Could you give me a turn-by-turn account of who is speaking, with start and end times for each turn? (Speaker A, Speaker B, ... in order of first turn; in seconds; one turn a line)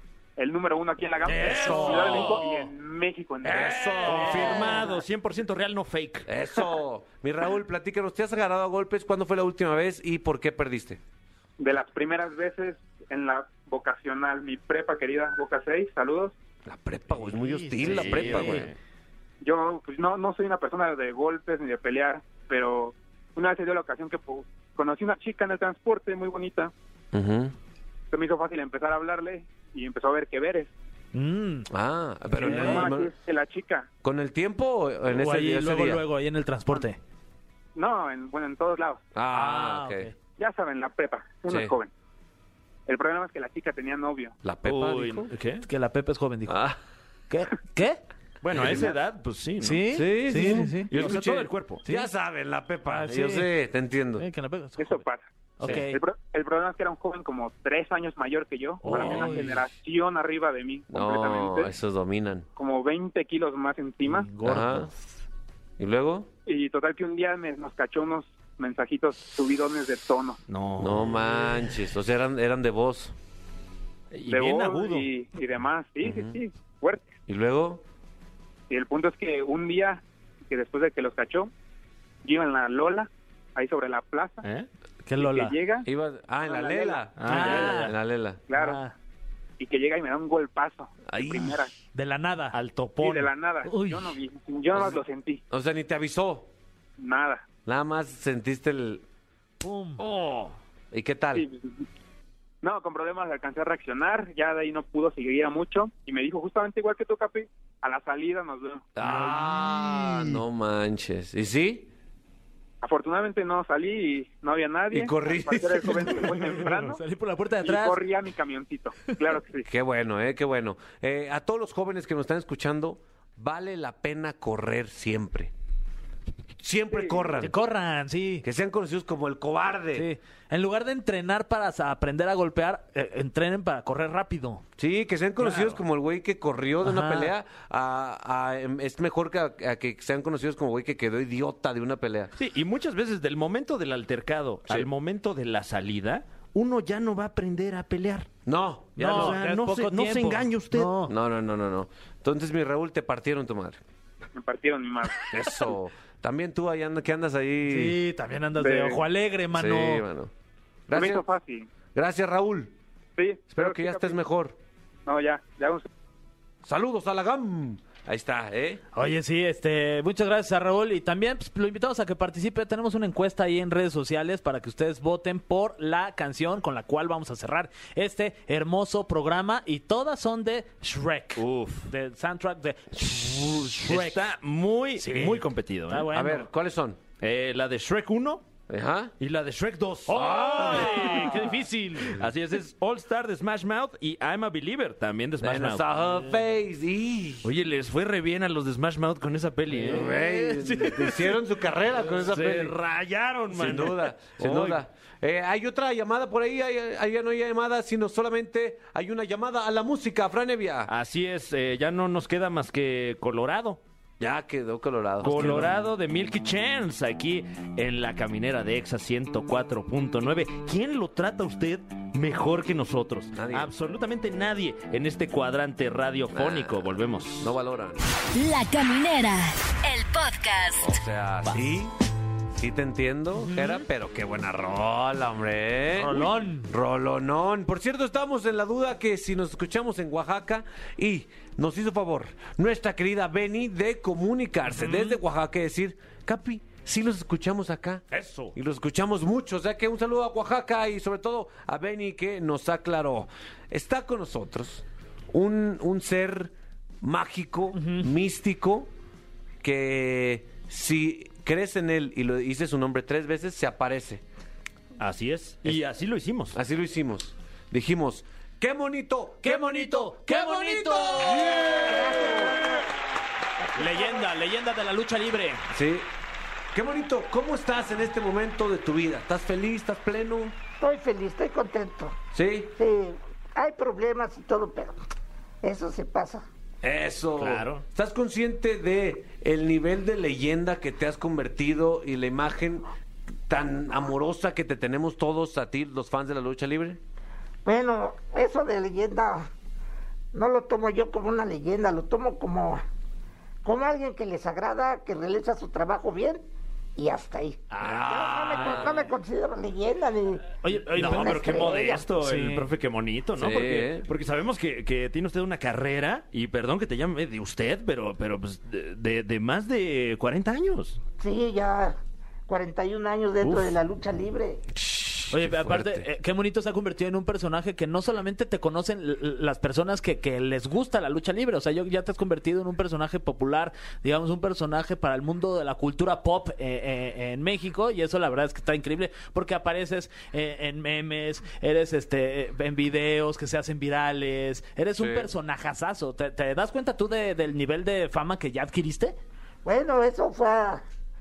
Speaker A: 0.4-3.9
Speaker B: 1.2-2.5
Speaker C: 1.3-2.7
Speaker D: 3.4-4.9
Speaker B: 3.5-6.3
Speaker C: 4.0-4.9
Speaker D: 6.2-11.0
Speaker A: 11.6-16.3
Speaker D: 16.6-18.7
Speaker C: 17.1-18.6
Speaker B: 17.8-18.7
Speaker A: 19.4-26.7
Speaker D: 27.1-27.5
Speaker A: 28.1-30.7
Speaker C: 31.1-31.7
Speaker D: 31.7-33.1
Speaker C: 32.4-32.9
Speaker A: 32.4-33.9
Speaker D: 34.0-36.0
Speaker C: 35.1-37.0
Speaker A: 37.7-39.0
Speaker D: 39.1-40.1
Speaker C: 39.3-40.1
Speaker A: 40.4-41.9
Speaker D: 41.5-41.7
Speaker A: 42.9-44.4
Speaker D: 44.4-45.3
Speaker B: 44.6-45.6
Speaker C: 45.6-46.6
Speaker D: 46.5-46.8
Speaker C: 47.3-48.0
Speaker B: 48.4-51.8
Speaker D: 48.5-48.9
Speaker C: 49.6-50.9
Speaker D: 49.9-54.2
Speaker C: 52.9-53.5
Speaker C: 54.2-55.0
Speaker A: 54.8-61.7
Speaker C: 55.6-56.0
Speaker C: 58.8-59.6
Speaker D: 58.9-59.3
Speaker D: 60.9-62.5
Speaker A: 62.6-64.3
Speaker C: 64.0-65.0
Speaker D: 64.4-64.9
Speaker D: 65.8-66.3
Speaker A: 66.5-70.4
Speaker B: 70.5-71.7
Speaker D: 70.8-73.1
Speaker B: 74.1-75.1
Speaker A: 74.3-77.1
Speaker D: 76.0-76.3
Speaker D: 77.3-77.8
Speaker A: 78.7-81.5
Speaker A: 82.2-84.4
Speaker B: 84.4-84.7
Speaker C: 85.0-85.5
Speaker A: 85.2-85.9
Speaker D: 85.8-88.4
Speaker A: 86.4-87.0
Speaker B: 87.2-87.9
Speaker C: 87.3-87.9
Speaker A: 88.5-88.8
Speaker C: 88.5-88.9
Speaker A: 89.6-91.7
Speaker D: 91.1-91.6
Speaker C: 91.9-92.5
Speaker B: 92.5-93.3
Speaker A: 93.0-95.4
Speaker C: 93.6-94.1
Speaker D: 95.5-96.5
Speaker A: 97.0-97.4
Speaker D: 97.7-99.0
Speaker C: 99.6-100.0
Speaker B: 100.0-100.5
Speaker D: 100.9-101.5
Speaker A: 101.3-101.6
Speaker A: 102.6-108.9
Speaker D: 109.0-111.9
Speaker C: 109.0-110.4
Speaker A: 112.8-117.0
Speaker D: 114.9-116.3
Speaker C: 116.6-118.0
Speaker A: 117.6-119.7
Speaker D: 119.7-125.5
Speaker D: 126.6-127.5
Speaker A: 126.9-127.3
Speaker C: 127.4-128.4
Speaker D: 128.4-130.1
Speaker C: 129.9-134.6
Speaker D: 134.8-142.3
Speaker B: 135.4-135.8
Speaker C: 136.8-137.3
Speaker B: 142.4-148.3
Speaker D: 148.4-149.4
Speaker C: 149.0-151.1
Speaker B: 149.0-151.0
Speaker D: 151.1-153.8
Speaker A: 154.3-155.3
Speaker D: 155.3-158.0
Speaker C: 157.6-160.0
Speaker A: 158.6-159.0
Speaker D: 159.5-160.3
Speaker D: 160.9-161.2
Speaker A: 160.9-161.7
Speaker D: 161.9-162.7
Speaker A: 163.2-164.2
Speaker D: 163.5-164.6
Speaker A: 165.1-165.9
Speaker D: 166.6-168.8
Speaker C: 168.9-184.2
Speaker B: 181.4-181.9
Speaker B: 183.5-186.1
Speaker C: 185.0-186.5
Speaker D: 186.1-187.0
Speaker B: 187.2-188.4
Speaker D: 188.7-189.1
Speaker B: 189.2-191.3
Speaker C: 190.1-192.2
Speaker D: 190.1-191.3
Speaker B: 192.1-195.8
Speaker D: 195.4-197.5
Speaker B: 197.4-200.1
Speaker C: 199.9-201.3
Speaker D: 199.9-202.8
Speaker B: 202.1-204.8
Speaker D: 203.5-210.9
Speaker B: 210.9-213.8
Speaker D: 214.2-215.8
Speaker B: 215.2-227.5
Speaker D: 223.3-223.7
Speaker D: 226.3-228.0
Speaker E: 228.3-231.0
Speaker D: 230.8-231.9
Speaker D: 232.6-258.9
Speaker C: 233.4-233.8
Speaker C: 235.9-236.7
Speaker C: 244.7-245.1
Speaker B: 248.1-248.5
Speaker C: 257.7-258.1
Speaker D: 259.6-264.2
Speaker B: 265.0-266.6
Speaker D: 266.5-272.6
Speaker C: 269.4-271.9
Speaker F: 271.8-272.7
Speaker F: 273.8-274.2
Speaker C: 273.8-275.6
Speaker D: 275.7-276.1
Speaker D: 276.7-280.6
Speaker F: 280.8-282.2
Speaker D: 282.3-282.7
Speaker F: 282.8-285.0
Speaker F: 285.6-286.4
Speaker D: 286.8-292.9
Speaker B: 287.4-287.8
Speaker D: 293.5-297.0
Speaker F: 297.6-299.5
Speaker F: 300.3-302.8
Speaker F: 303.6-306.4
Speaker F: 306.9-312.0
Speaker D: 307.8-309.0
Speaker B: 308.5-308.9
Speaker C: 310.6-312.7
Speaker B: 310.9-321.0
Speaker D: 313.4-314.1
Speaker F: 321.2-322.0
Speaker F: 322.5-324.6
Speaker B: 323.4-323.7
Speaker D: 324.8-326.1
Speaker C: 325.3-349.2
Speaker D: 345.0-345.3
Speaker F: 349.6-350.8